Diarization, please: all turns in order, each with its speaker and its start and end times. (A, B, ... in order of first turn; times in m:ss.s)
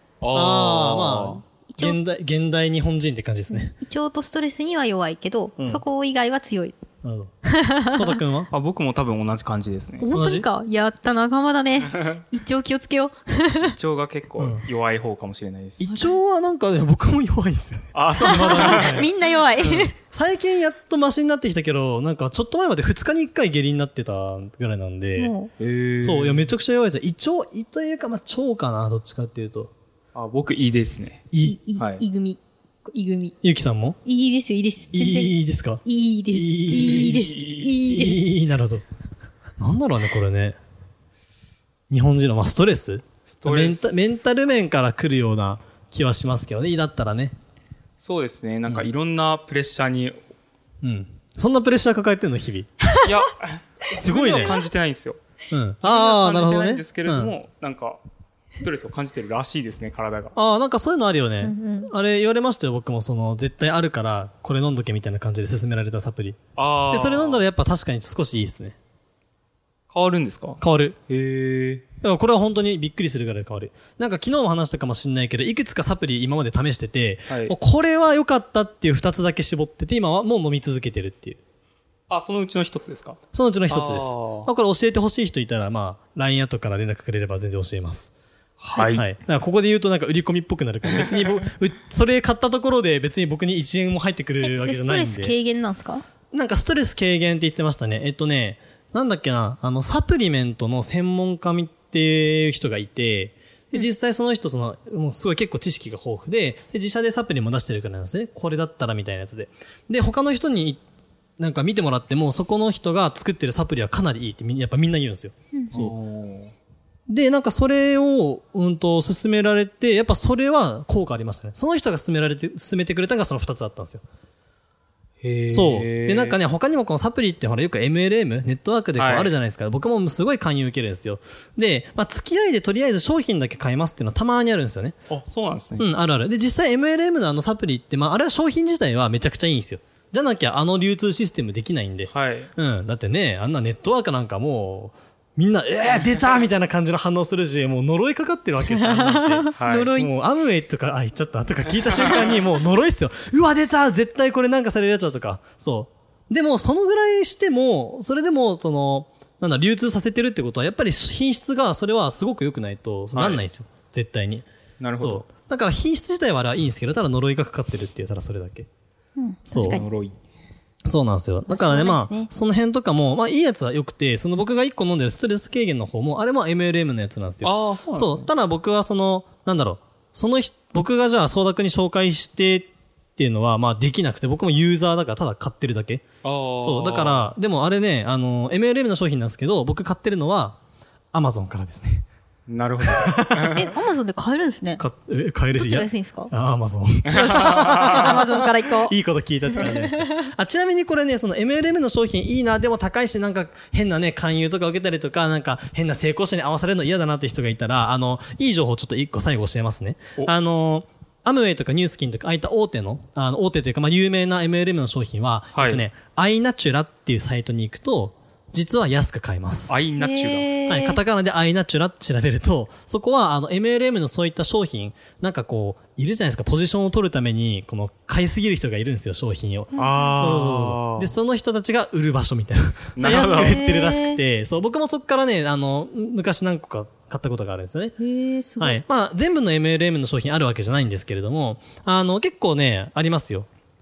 0:00.2-0:01.4 A
0:00.3-0:03.8 B
0:01.7-0:02.0 C
0:03.5-0:06.8 C
0:05.6-0:05.8 B
0:07.0-0:07.3 B
0:07.4-0:08.0 C
0:07.9-0:08.5 B
0:08.5-0:10.1 A
0:10.0-0:13.8 C
0:10.1-0:10.5 B
0:13.7-0:15.9 A
0:14.4-0:14.6 B
0:15.8-0:19.1 B
0:17.9-0:19.1 A
0:18.2-0:20.0 C
0:20.1-0:25.4 B
0:25.2-0:25.5 C
0:25.6-0:26.5 A
0:26.0-0:29.7 B
0:30.2-0:32.0 A
0:31.3-0:31.6 B
0:31.4-0:33.4 C
0:33.4-0:34.0 B
0:34.1-0:35.3 C
0:34.9-0:38.8 B
0:35.8-0:38.2 C
0:36.9-0:37.7 A
0:39.6-0:40.6 B
0:41.9-0:47.4 B
0:43.3-0:44.2 A
0:48.0-0:50.2 A
0:50.8-0:52.7 B
0:53.0-0:55.2 A
0:53.9-0:54.6 B
0:55.5-0:57.3 B
0:55.8-0:58.0 A
0:58.6-1:00.3 A
1:00.4-1:06.4 B
1:01.4-1:01.9 C
1:06.6-1:07.4 A
1:06.9-1:08.8 B
1:09.9-1:11.8 A
1:10.6-1:11.0 B
1:12.0-1:21.4 B
1:17.3-1:17.6 A
1:22.1-1:23.2 A
1:23.3-1:28.1 B
1:23.7-1:24.5 A
1:28.6-1:29.0 A
1:28.9-1:35.4 B
1:31.0-1:31.3 A
1:34.4-1:36.0 C
1:36.3-1:50.8 B
1:51.4-1:55.9 B
1:55.7-1:56.5 A
1:57.1-2:04.0 B
2:05.2-2:06.4 A
2:05.5-2:15.0 B
2:09.0-2:09.3 A
2:15.1-2:15.9 A
2:15.8-2:48.7 B
2:22.1-2:22.5 A
2:28.7-2:30.1 C
2:29.6-2:29.9 A
2:43.1-2:43.4 A
2:44.8-2:45.3 A
2:49.2-2:49.9 C
2:49.5-2:49.8 B
2:49.6-2:50.2 A
2:50.9-3:06.1 B
2:51.5-2:52.3 C
2:57.4-2:58.3 A
3:06.2-3:07.3 A
3:06.6-3:10.6 B
3:11.1-3:12.0 B
3:12.5-3:13.6 A
3:12.8-3:13.6 B
3:13.6-3:14.8 C
3:14.8-3:39.8 B
3:15.5-3:16.3 C
3:17.1-3:18.9 C
3:17.2-3:18.0 A
3:19.5-3:20.2 C
3:35.5-3:35.9 A
3:39.7-3:40.5 A
3:40.0-3:41.0 C
3:40.6-3:58.0 B
3:49.7-3:50.2 C
3:49.8-3:51.1 A
3:53.0-3:53.6 A
3:53.4-3:54.2 C
3:58.0-3:58.8 C
3:58.6-4:03.5 B